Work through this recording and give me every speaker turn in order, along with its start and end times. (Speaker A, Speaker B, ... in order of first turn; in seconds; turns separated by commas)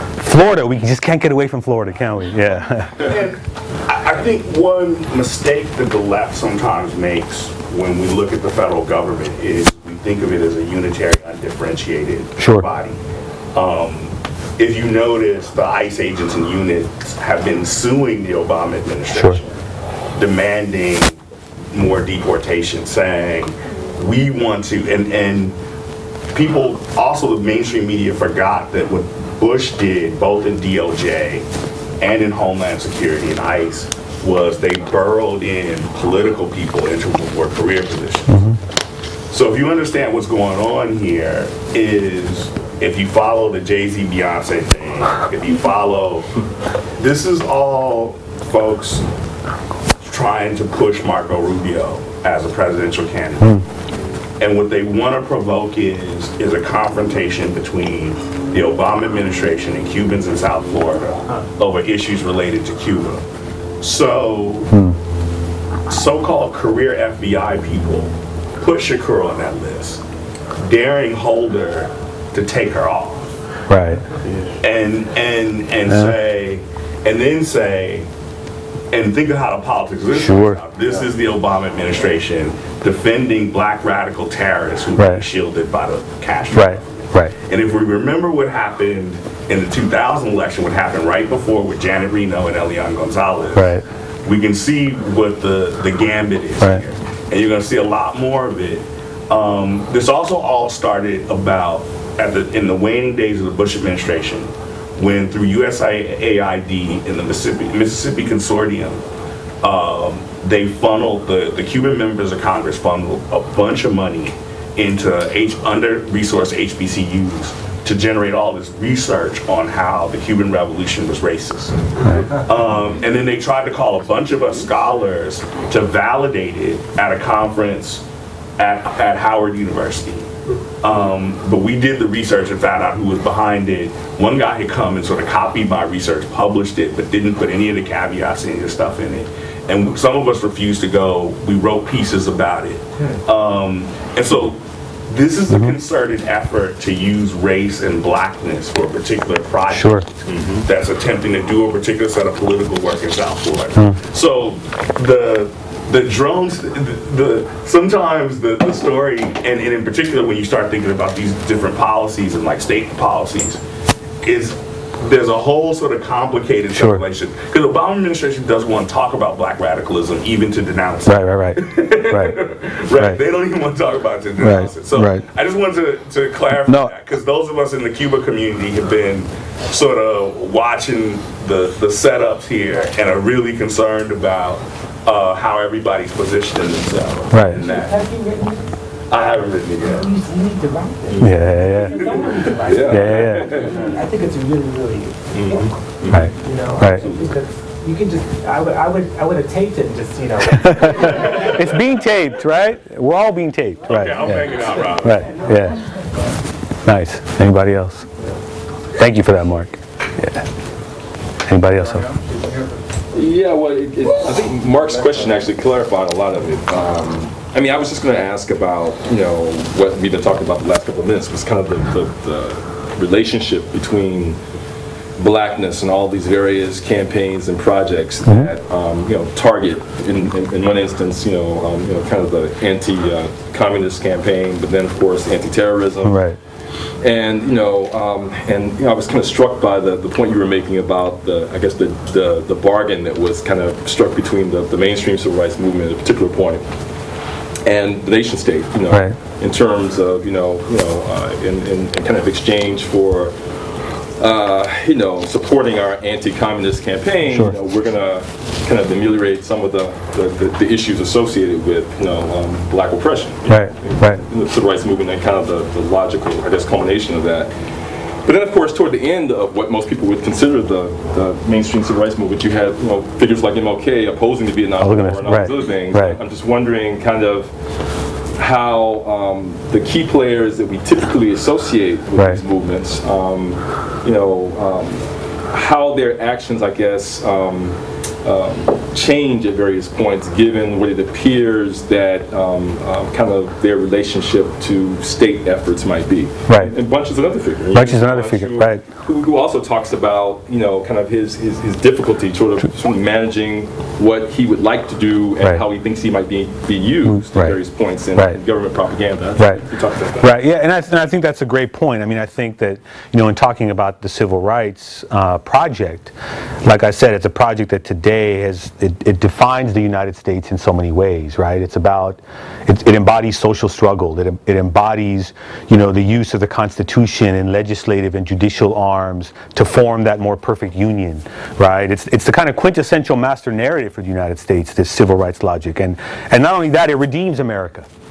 Speaker A: 0.2-3.1, Speaker B: 3.0-13.0, Speaker A: 12.4-12.7, Speaker B: 13.5-19.5, Speaker A: 19.1-19.4, Speaker B: 20.1-21.2, Speaker B: 21.7-25.6, Speaker B: 26.3-31.5, Speaker B: 32.0-38.4, Speaker A: 38.3-38.6, Speaker B: 39.3-46.3, Speaker B: 47.0-49.0, Speaker B: 50.0-53.6, Speaker B: 54.4-63.2, Speaker B: 63.8-64.7, Speaker A: 64.7-65.0, Speaker B: 65.9-70.0, Speaker B: 70.6-73.2, Speaker A: 73.7-74.0, Speaker B: 74.6-78.1, Speaker B: 78.9-86.8, Speaker A: 80.1-80.6, Speaker A: 85.0-85.3, Speaker A: 86.5-87.3, Speaker B: 87.5-109.0, Speaker A: 93.5-93.8, Speaker B: 109.6-128.0, Speaker B: 128.6-130.3, Speaker B: 130.8-163.6, Speaker A: 145.5-145.8, Speaker A: 149.7-150.1, Speaker B: 164.2-188.0, Speaker A: 166.8-167.0, Speaker A: 171.1-172.4, Speaker A: 172.9-173.2, Speaker A: 174.4-175.3, Speaker A: 176.7-176.9, Speaker A: 187.3-187.6, Speaker C: 187.6-188.7, Speaker B: 189.1-190.1, Speaker C: 189.8-195.8, Speaker A: 191.2-192.0, Speaker D: 192.5-193.9, Speaker A: 192.9-193.7, Speaker D: 195.3-196.3, Speaker A: 196.1-197.1, Speaker C: 196.3-201.5, Speaker A: 200.5-205.8, Speaker B: 203.9-205.6, Speaker C: 204.6-205.7, Speaker A: 206.8-208.1, Speaker A: 208.9-210.4, Speaker A: 211.5-212.1, Speaker D: 213.1-224.4, Speaker D: 225.2-236.2, Speaker A: 228.3-228.5, Speaker A: 236.0-236.4, Speaker D: 237.0-246.7, Speaker D: 247.7-253.3, Speaker A: 248.9-249.2, Speaker D: 254.2-267.5, Speaker A: 257.3-257.5, Speaker A: 263.5-264.2, Speaker D: 268.2-277.5, Speaker A: 274.8-276.2, Speaker D: 278.4-310.4, Speaker A: 296.5-296.7, Speaker A: 297.7-298.8, Speaker A: 307.1-307.6, Speaker A: 309.4-309.6, Speaker A: 310.2-337.9